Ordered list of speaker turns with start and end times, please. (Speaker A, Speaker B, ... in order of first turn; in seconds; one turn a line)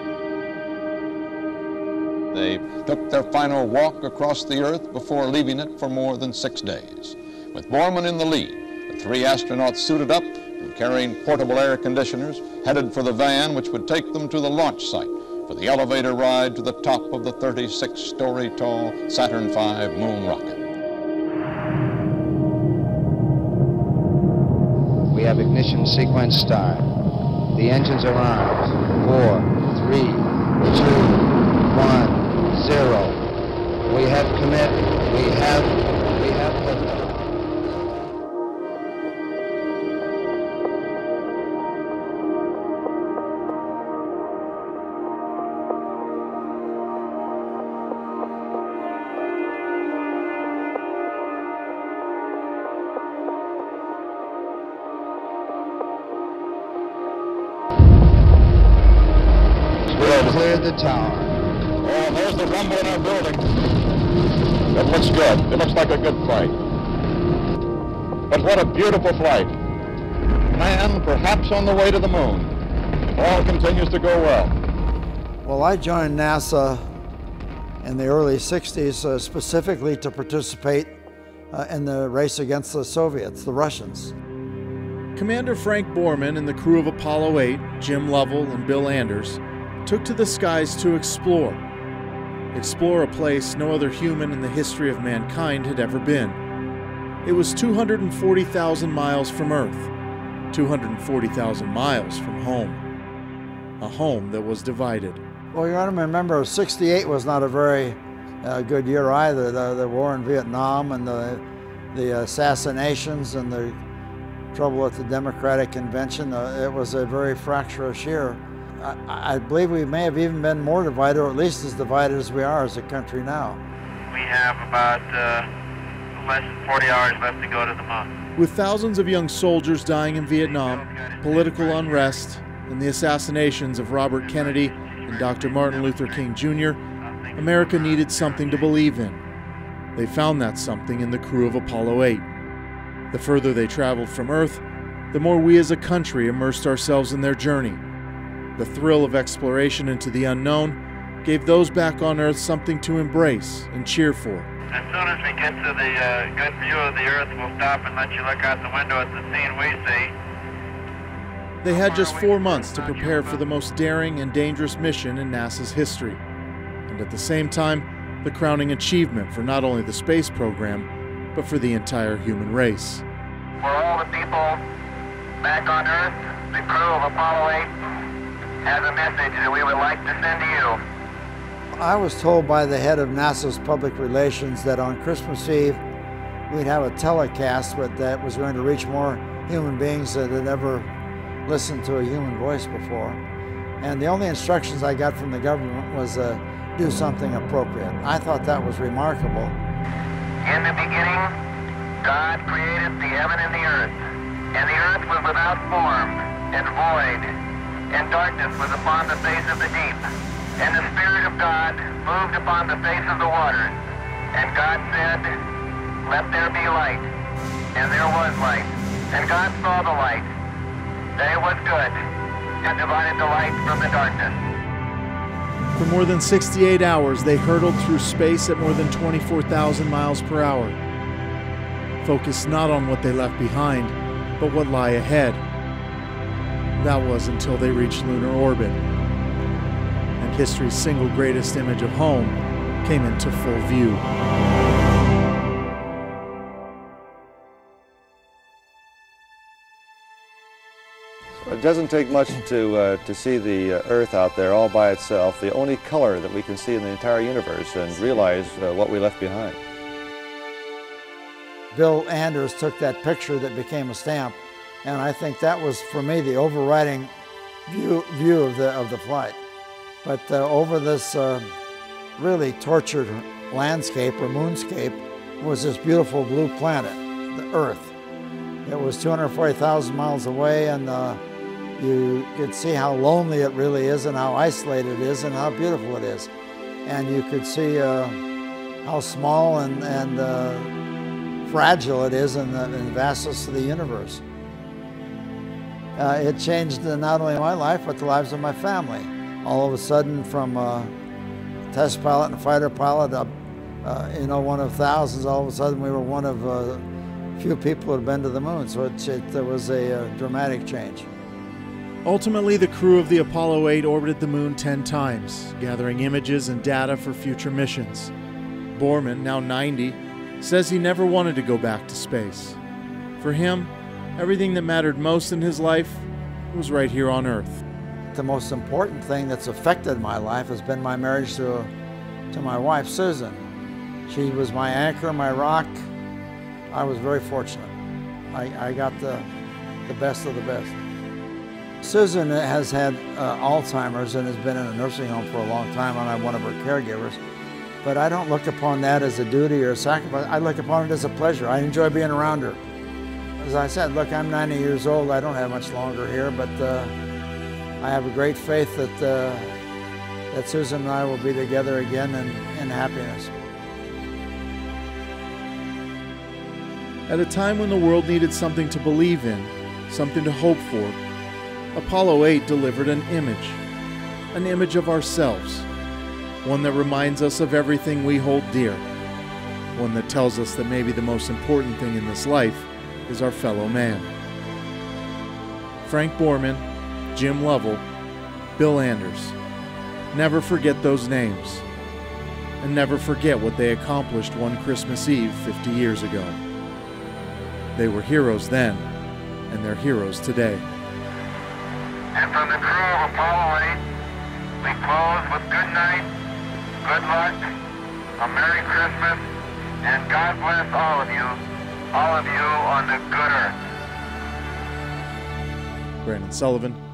Speaker A: 2.3-20.6
Speaker B: 25.1-26.9
Speaker B: 27.5-33.2
Speaker B: 33.9-37.2
Speaker B: 59.9-61.4
Speaker A: 60.0-60.5
Speaker A: 61.8-63.4
Speaker A: 64.7-66.5
Speaker A: 68.3-69.5
Speaker A: 70.5-72.5
Speaker A: 73.2-74.5
Speaker C: 75.5-76.8
Speaker C: 77.8-81.0
Speaker C: 81.5-84.1
Speaker D: 85.2-91.6
Speaker D: 92.5-96.4
Speaker D: 97.2-99.9
Speaker D: 100.5-102.8
Speaker D: 103.8-105.2
Speaker C: 105.5-111.4
Speaker C: 111.9-113.8
Speaker C: 114.5-123.6
Speaker E: 124.1-125.5
Speaker E: 126.2-128.1
Speaker D: 128.4-136.8
Speaker E: 130.4-132.1
Speaker E: 135.5-136.1
Speaker D: 137.3-139.2
Speaker E: 137.9-138.5
Speaker D: 139.9-142.2
Speaker D: 143.1-144.6
Speaker D: 145.1-147.8
Speaker D: 148.6-154.5
Speaker E: 154.7-160.1
Speaker D: 161.6-166.2
Speaker E: 161.7-163.3
Speaker D: 166.9-173.0
Speaker E: 173.6-174.6
Speaker E: 175.4-177.7
Speaker E: 178.6-180.8
Speaker C: 181.8-185.8
Speaker C: 186.5-190.9
Speaker C: 191.5-193.2
Speaker C: 193.8-199.6
Speaker E: 200.4-201.3
Speaker E: 202.0-204.0
Speaker E: 204.5-207.3
Speaker E: 207.9-210.0
Speaker E: 210.6-213.8
Speaker E: 214.3-215.3
Speaker E: 216.1-217.1
Speaker E: 217.8-220.3
Speaker E: 221.2-222.0
Speaker E: 222.6-224.4
Speaker D: 225.8-230.8
Speaker D: 232.0-235.4
Speaker D: 236.8-238.8
Speaker D: 240.2-244.0
Speaker F: 251.5-259.6
Speaker C: 261.7-267.1
Speaker C: 267.7-269.4
Speaker C: 270.0-271.5
Speaker C: 272.2-277.9
Speaker C: 278.6-281.2
Speaker C: 281.8-286.3
Speaker C: 286.9-288.2
Speaker C: 288.8-290.7
Speaker C: 291.4-294.2
Speaker C: 296.0-300.9
Speaker C: 301.7-303.3
Speaker C: 303.8-306.9
Speaker C: 307.4-311.1
Speaker D: 312.1-318.1
Speaker D: 318.8-322.6
Speaker D: 323.2-327.6
Speaker C: 328.1-331.7
Speaker C: 332.3-333.5
Speaker C: 334.1-335.8
Speaker C: 336.7-337.7
Speaker C: 338.3-339.3
Speaker C: 339.9-340.8
Speaker C: 341.8-347.2
Speaker C: 347.8-352.6
Speaker C: 353.4-356.9
Speaker C: 357.8-359.6
Speaker C: 360.3-363.3
Speaker D: 367.1-371.0
Speaker D: 371.8-373.6
Speaker D: 374.3-375.7
Speaker D: 376.4-378.9
Speaker D: 379.8-384.1
Speaker D: 385.8-387.8
Speaker D: 388.6-389.4
Speaker D: 390.1-391.6
Speaker D: 392.6-396.4
Speaker D: 397.8-398.9
Speaker D: 399.5-400.6
Speaker E: 402.1-403.8
Speaker E: 404.6-406.1
Speaker E: 406.8-407.4
Speaker E: 408.2-409.2
Speaker E: 409.8-411.4
Speaker E: 411.9-413.6
Speaker D: 416.0-416.8